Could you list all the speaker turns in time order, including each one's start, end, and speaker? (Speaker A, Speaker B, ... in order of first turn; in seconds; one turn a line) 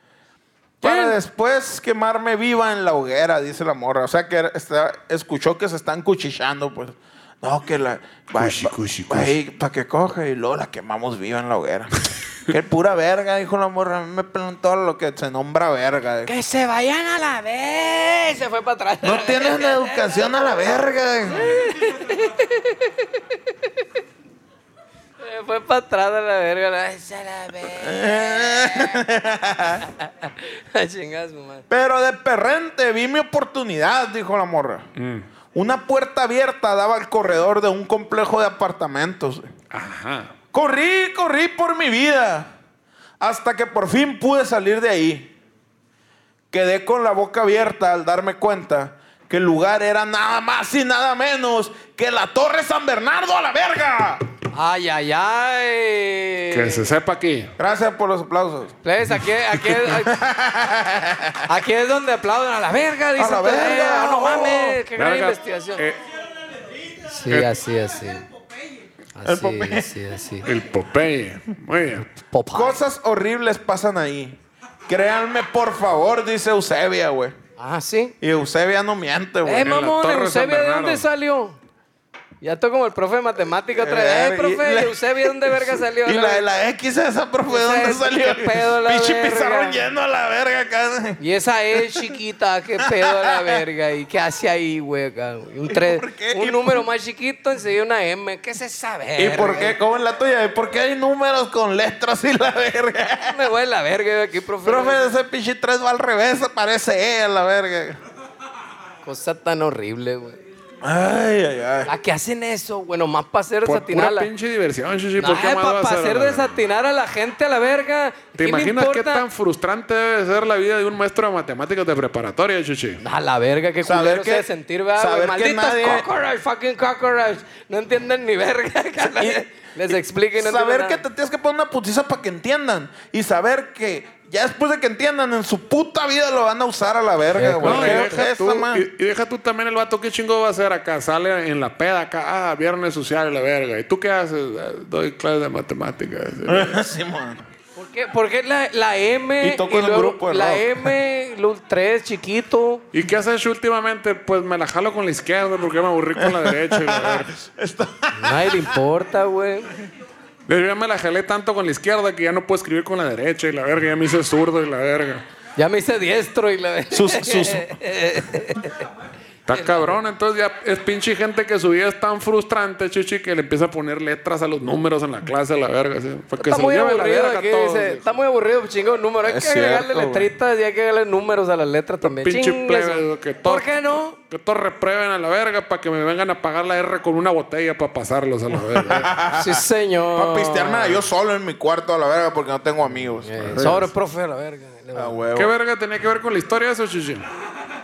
Speaker A: 0.8-11.9
Speaker B: 0.9-1.1
Speaker B: 8.4-9.3
Speaker A: 12.4-16.3
Speaker C: 16.3-20.2
Speaker A: 19.0-21.6
Speaker C: 21.4-22.9
Speaker C: 25.2-29.0
Speaker A: 27.7-29.9
Speaker C: 30.0-31.6
Speaker A: 31.7-34.9
Speaker B: 35.0-35.3
Speaker A: 35.5-39.5
Speaker B: 39.7-40.3
Speaker A: 40.5-42.5
Speaker A: 43.2-45.3
Speaker A: 46.5-54.2
Speaker C: 54.5-56.9
Speaker B: 56.5-57.5
Speaker A: 57.6-58.7
Speaker C: 58.8-60.1
Speaker A: 60.0-61.5
Speaker C: 61.5-65.8
Speaker A: 63.2-64.8
Speaker B: 64.9-66.0
Speaker C: 67.1-68.2
Speaker C: 69.1-70.5
Speaker A: 69.2-69.9
Speaker B: 70.4-72.1
Speaker C: 72.2-72.8
Speaker A: 72.5-77.4
Speaker C: 77.6-78.1
Speaker A: 78.2-79.7
Speaker C: 79.4-81.6
Speaker B: 79.6-81.0
Speaker C: 82.4-86.4
Speaker A: 83.8-91.2
Speaker C: 87.5-89.8
Speaker C: 91.2-99.8
Speaker A: 91.7-92.1
Speaker A: 92.8-93.6
Speaker A: 95.7-96.8
Speaker A: 99.2-103.4
Speaker C: 103.3-105.1
Speaker A: 104.6-108.0
Speaker C: 109.0-110.4
Speaker A: 110.8-111.9
Speaker C: 111.9-114.3
Speaker B: 113.6-116.6
Speaker C: 115.2-119.2
Speaker B: 118.4-123.0
Speaker C: 123.0-131.0
Speaker A: 123.8-126.1
Speaker A: 129.0-138.9
Speaker C: 137.3-138.1
Speaker B: 137.6-146.7
Speaker A: 146.4-147.4
Speaker C: 147.8-152.8
Speaker A: 149.4-150.9
Speaker B: 152.9-157.3
Speaker A: 156.2-158.8
Speaker C: 158.1-159.7
Speaker B: 160.5-165.2
Speaker C: 165.6-168.8
Speaker A: 166.9-167.8
Speaker B: 169.5-178.1
Speaker C: 176.4-184.2
Speaker A: 179.2-180.3
Speaker B: 182.0-189.1
Speaker A: 188.6-193.5
Speaker C: 189.3-191.1
Speaker C: 193.2-195.2
Speaker B: 193.4-193.9
Speaker A: 194.9-195.5
Speaker B: 195.3-197.3